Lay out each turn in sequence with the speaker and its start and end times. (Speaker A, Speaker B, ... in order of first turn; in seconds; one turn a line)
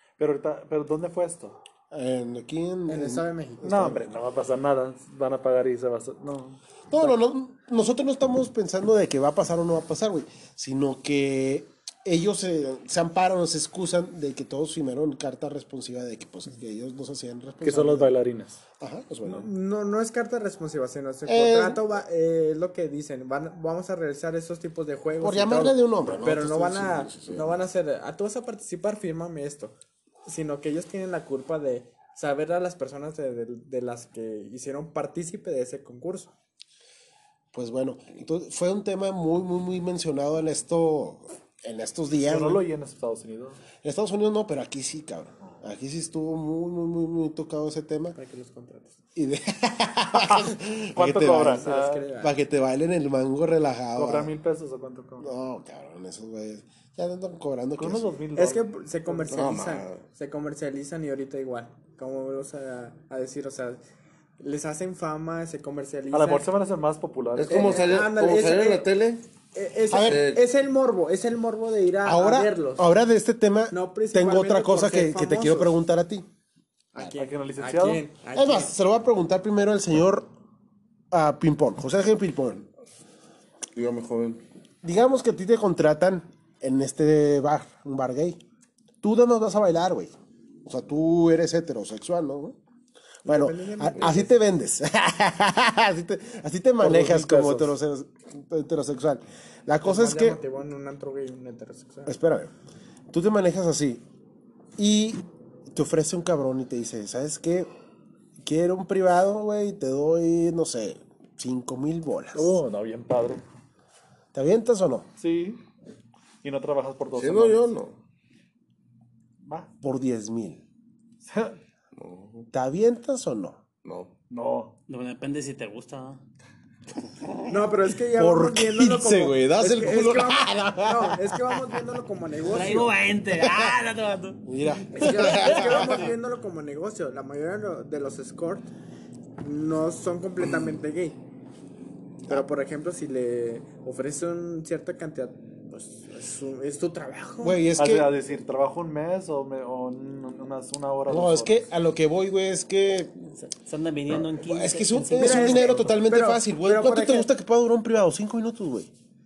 Speaker A: 0.2-1.6
Speaker B: 1.9-4.1
Speaker C: 2.9-4.1
Speaker A: 3.6-7.1
Speaker B: 6.9-18.1
Speaker A: 17.6-18.6
Speaker B: 18.8-19.5
Speaker C: 19.2-29.7
Speaker B: 21.2-21.8
Speaker B: 25.2-27.4
Speaker C: 30.2-36.3
Speaker B: 37.5-42.6
Speaker A: 42.2-43.6
Speaker B: 43.8-48.2
Speaker C: 48.1-49.0
Speaker B: 49.1-54.3
Speaker A: 50.1-52.1
Speaker C: 51.5-52.4
Speaker A: 53.9-55.3
Speaker B: 55.2-58.1
Speaker A: 57.8-58.7
Speaker C: 58.4-63.8
Speaker D: 59.2-60.0
Speaker C: 64.4-66.5
Speaker A: 66.1-67.9
Speaker D: 67.3-69.2
Speaker C: 67.5-68.9
Speaker C: 69.5-72.9
Speaker B: 69.9-70.3
Speaker D: 70.0-70.4
Speaker B: 72.0-76.3
Speaker C: 73.7-75.8
Speaker C: 76.9-78.7
Speaker A: 77.1-78.1
Speaker B: 78.3-80.3
Speaker B: 81.1-82.7
Speaker D: 83.7-84.4
Speaker B: 84.8-88.4
Speaker B: 89.0-90.1
Speaker B: 90.7-92.6
Speaker C: 93.2-94.4
Speaker B: 93.2-100.4
Speaker A: 96.8-97.7
Speaker C: 99.8-102.1
Speaker B: 102.1-102.5
Speaker B: 103.1-104.0
Speaker B: 104.8-107.7
Speaker B: 108.4-112.6
Speaker A: 112.3-113.4
Speaker B: 114.3-115.1
Speaker A: 115.2-115.6
Speaker A: 116.4-117.7
Speaker D: 117.1-118.0
Speaker A: 119.4-119.7
Speaker B: 119.8-120.6
Speaker A: 121.2-121.6
Speaker D: 121.9-122.5
Speaker B: 122.5-123.6
Speaker D: 123.8-124.1
Speaker A: 124.3-124.7
Speaker E: 124.9-126.2
Speaker C: 127.5-132.9
Speaker B: 128.2-131.6
Speaker E: 132.4-134.4
Speaker B: 133.3-133.8
Speaker B: 134.4-136.1
Speaker C: 134.9-138.7
Speaker E: 135.0-135.9
Speaker C: 139.4-141.2
Speaker C: 142.3-147.6
Speaker B: 147.4-148.1
Speaker A: 147.8-151.7
Speaker B: 151.1-153.1
Speaker E: 153.4-155.8
Speaker B: 154.4-158.9
Speaker C: 155.2-157.3